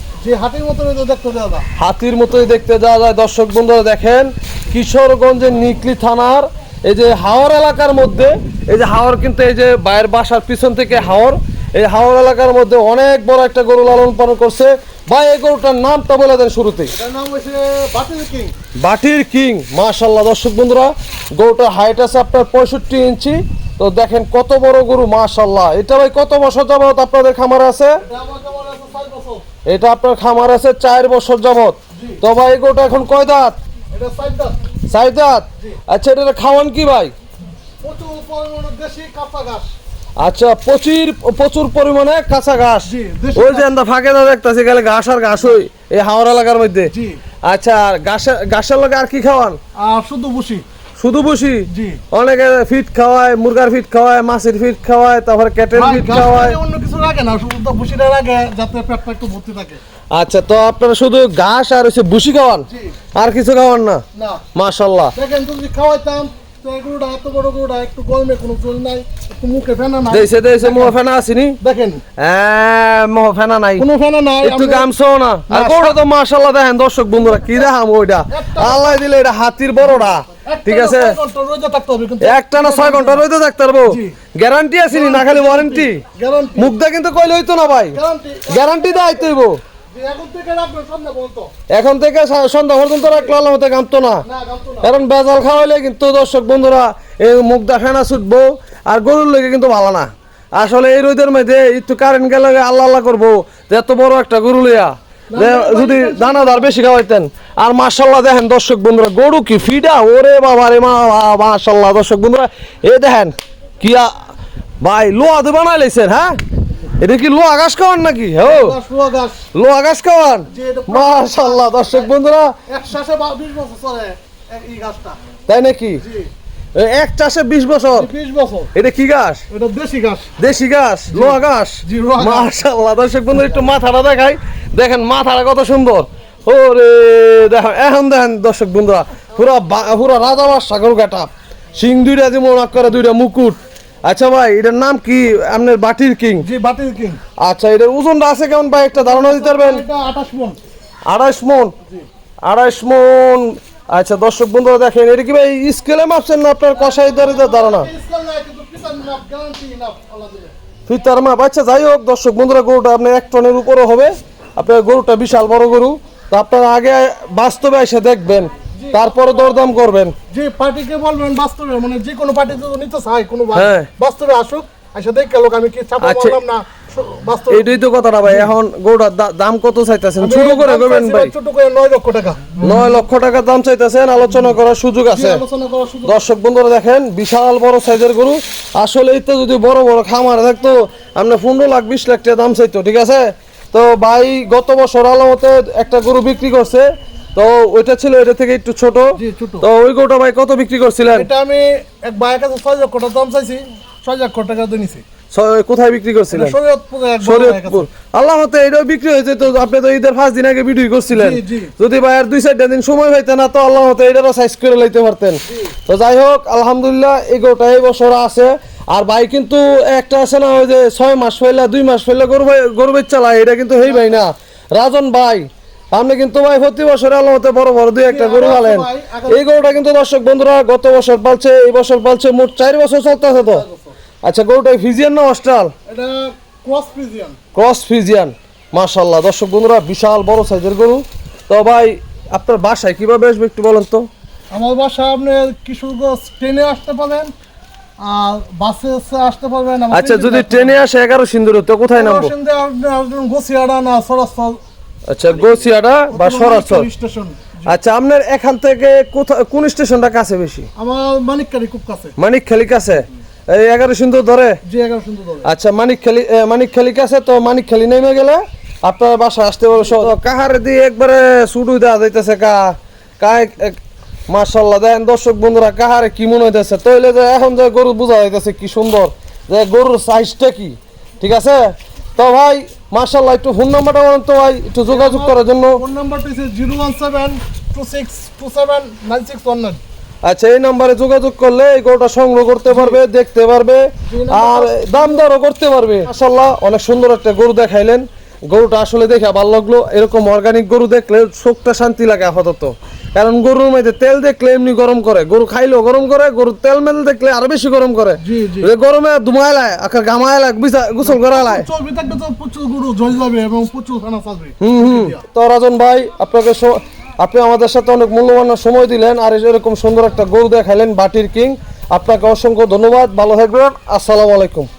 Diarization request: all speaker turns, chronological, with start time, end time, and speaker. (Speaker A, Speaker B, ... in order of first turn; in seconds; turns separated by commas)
Speaker A: 0.2-1.7, Speaker B: 1.8-16.9, Speaker A: 16.9-18.5, Speaker B: 18.8-28.0, Speaker A: 28.1-29.4, Speaker B: 29.7-33.6, Speaker A: 31.9-32.2, Speaker A: 33.9-34.6, Speaker B: 34.9-37.1, Speaker A: 37.8-39.7, Speaker B: 40.2-46.9, Speaker A: 42.8-43.7, Speaker A: 46.9-47.2, Speaker B: 47.5-49.6, Speaker A: 49.8-50.6, Speaker B: 51.0-56.6, Speaker A: 51.7-52.0, Speaker A: 55.7-59.8, Speaker B: 60.1-64.0, Speaker A: 62.7-63.0, Speaker A: 64.1-64.4, Speaker B: 64.5-65.1, Speaker A: 65.1-71.0, Speaker B: 70.1-71.6, Speaker A: 71.6-72.0, Speaker B: 72.2-73.8, Speaker A: 73.8-74.9, Speaker B: 74.4-81.2, Speaker A: 75.5-76.0, Speaker A: 77.2-77.7, Speaker A: 78.3-79.0, Speaker A: 80.0-83.3, Speaker B: 82.2-86.0, Speaker A: 83.8-84.2, Speaker A: 84.8-86.8, Speaker B: 86.6-88.0, Speaker A: 87.9-89.3, Speaker B: 88.5-89.6, Speaker A: 89.9-91.5, Speaker B: 91.7-94.2, Speaker A: 93.0-93.3, Speaker A: 94.2-94.9, Speaker B: 94.8-114.2, Speaker A: 105.3-106.7, Speaker B: 114.8-116.4, Speaker B: 117.0-118.8, Speaker A: 118.4-119.5, Speaker B: 119.5-122.5, Speaker A: 120.5-122.1, Speaker A: 122.7-125.2, Speaker B: 125.5-126.0, Speaker A: 126.0-126.3, Speaker B: 126.7-128.1, Speaker A: 128.0-128.7, Speaker B: 128.7-129.4, Speaker A: 129.5-130.3, Speaker B: 130.4-146.5, Speaker A: 131.1-132.5, Speaker A: 146.4-147.2, Speaker B: 147.4-149.8, Speaker A: 148.9-150.6, Speaker B: 151.1-151.7, Speaker B: 152.4-157.9, Speaker A: 156.8-160.5, Speaker B: 160.9-170.2, Speaker A: 168.8-169.7, Speaker A: 170.3-177.7, Speaker B: 173.5-173.9, Speaker B: 176.0-176.4, Speaker B: 177.5-181.3, Speaker A: 178.2-178.5, Speaker A: 180.2-183.0, Speaker B: 182.6-185.4, Speaker A: 184.3-184.6, Speaker A: 185.1-186.2, Speaker B: 186.1-201.3, Speaker A: 199.2-199.7, Speaker A: 201.1-205.0, Speaker B: 205.3-206.6, Speaker A: 206.3-207.8, Speaker B: 207.2-233.6, Speaker A: 211.1-211.7, Speaker A: 215.5-215.8, Speaker A: 223.8-224.2, Speaker A: 228.1-229.8, Speaker A: 233.3-233.9, Speaker B: 234.2-235.7, Speaker A: 235.9-237.4, Speaker B: 237.5-244.1, Speaker A: 244.5-247.3, Speaker A: 248.0-250.8, Speaker B: 249.9-252.3, Speaker A: 251.9-254.6, Speaker B: 255.1-256.9, Speaker A: 256.1-257.7, Speaker B: 257.7-260.7, Speaker A: 260.8-262.1, Speaker B: 262.2-264.6, Speaker A: 264.6-265.5, Speaker B: 265.4-285.8, Speaker A: 269.8-270.1, Speaker A: 284.9-289.8, Speaker B: 290.2-311.7, Speaker A: 292.7-293.0, Speaker A: 294.1-295.2, Speaker A: 308.2-308.7, Speaker A: 311.0-315.2, Speaker B: 314.6-324.7